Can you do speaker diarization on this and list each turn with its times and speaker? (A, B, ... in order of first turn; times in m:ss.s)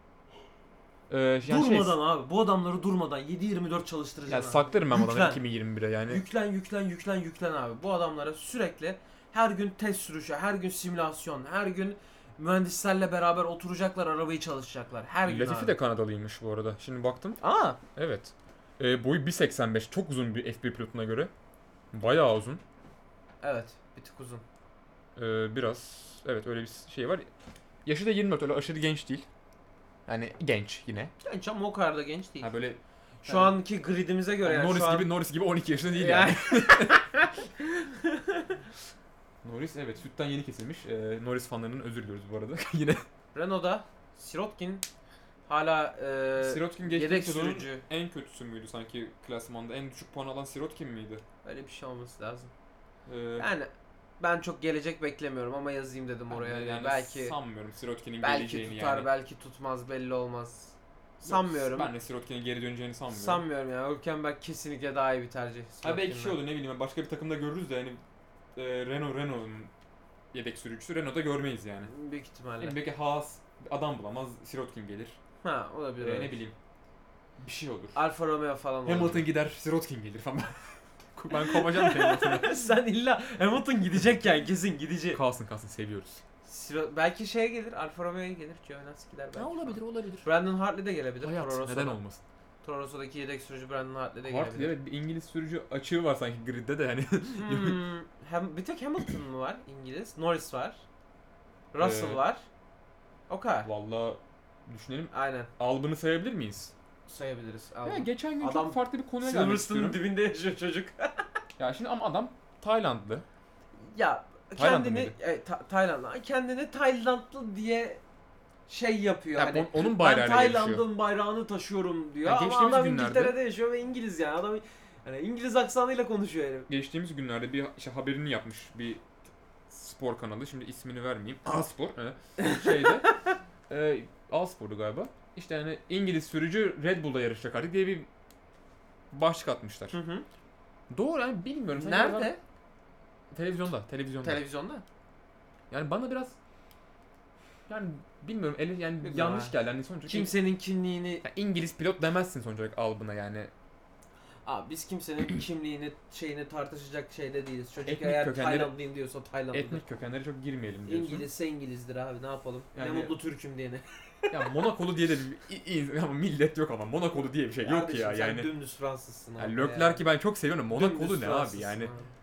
0:01.1-0:02.0 A
0:01.4-0:05.4 B
0:04.3-0:06.2 A
0:06.1-0:15.7 B
0:15.2-0:17.4 A
0:17.4-0:17.8 B
0:17.9-0:21.3 A
0:21.9-0:22.6 A
0:23.4-0:24.4 B
0:25.2-0:27.3 A
0:27.8-0:29.3 A
0:30.0-0:31.1 A
0:31.2-0:32.5 B
0:32.4-0:33.6 A
0:33.2-0:35.1 B
0:34.4-0:37.0 A
0:35.9-0:38.6 B
0:39.4-0:43.0 A
0:43.3-0:44.8 B
0:45.5-0:47.8 B
0:46.4-0:51.2 A
0:51.4-0:52.5 B
0:53.0-0:53.5 A
0:53.4-0:57.4 B
0:56.3-0:59.1 A
0:58.2-1:01.9 B
1:01.2-1:03.4 A
1:03.1-1:06.4 B
1:05.8-1:08.0 A
1:08.5-1:09.7 A
1:10.3-1:11.9 A
1:11.8-1:12.8 B
1:12.6-1:15.2 A
1:15.4-1:16.4 B
1:16.0-1:16.6 A
1:17.4-1:18.0 A
1:17.9-1:19.3 B
1:18.8-1:22.5 A
1:21.3-1:25.2 B
1:25.1-1:26.2 A
1:26.4-1:32.0 B
1:29.3-1:30.3 A
1:31.2-1:32.2 A
1:32.6-1:34.7 B
1:34.2-1:37.8 A
1:37.4-1:40.8 B
1:41.7-1:42.4 B
1:41.8-1:42.2 A
1:43.3-1:43.7 B
1:43.6-1:46.7 A
1:45.1-1:45.5 B
1:47.1-1:51.3 B
1:47.8-1:50.0 A
1:51.6-1:53.2 A
1:53.8-1:58.0 B
1:54.5-1:55.1 A
1:58.7-2:06.7 B
1:59.4-2:00.8 A
2:02.2-2:03.4 A
2:06.7-2:09.0 A
2:09.7-2:13.1 A
2:12.4-2:13.3 B
2:13.7-2:18.1 A
2:19.1-2:20.0 A
2:19.9-2:20.2 B
2:20.9-2:22.4 A
2:21.7-2:22.4 B
2:23.3-2:24.4 A
2:24.2-2:24.8 B
2:25.7-2:26.4 A
2:27.7-2:30.3 A
2:29.0-2:29.5 B
2:30.0-2:31.2 B
2:31.2-2:33.5 A
2:34.4-2:39.8 B
2:37.8-2:38.7 A
2:39.5-2:41.3 A
2:40.8-2:44.6 B
2:42.7-2:43.2 A
2:44.3-2:48.5 A
2:47.6-2:50.0 B
2:49.4-2:51.9 A
2:50.7-2:52.1 B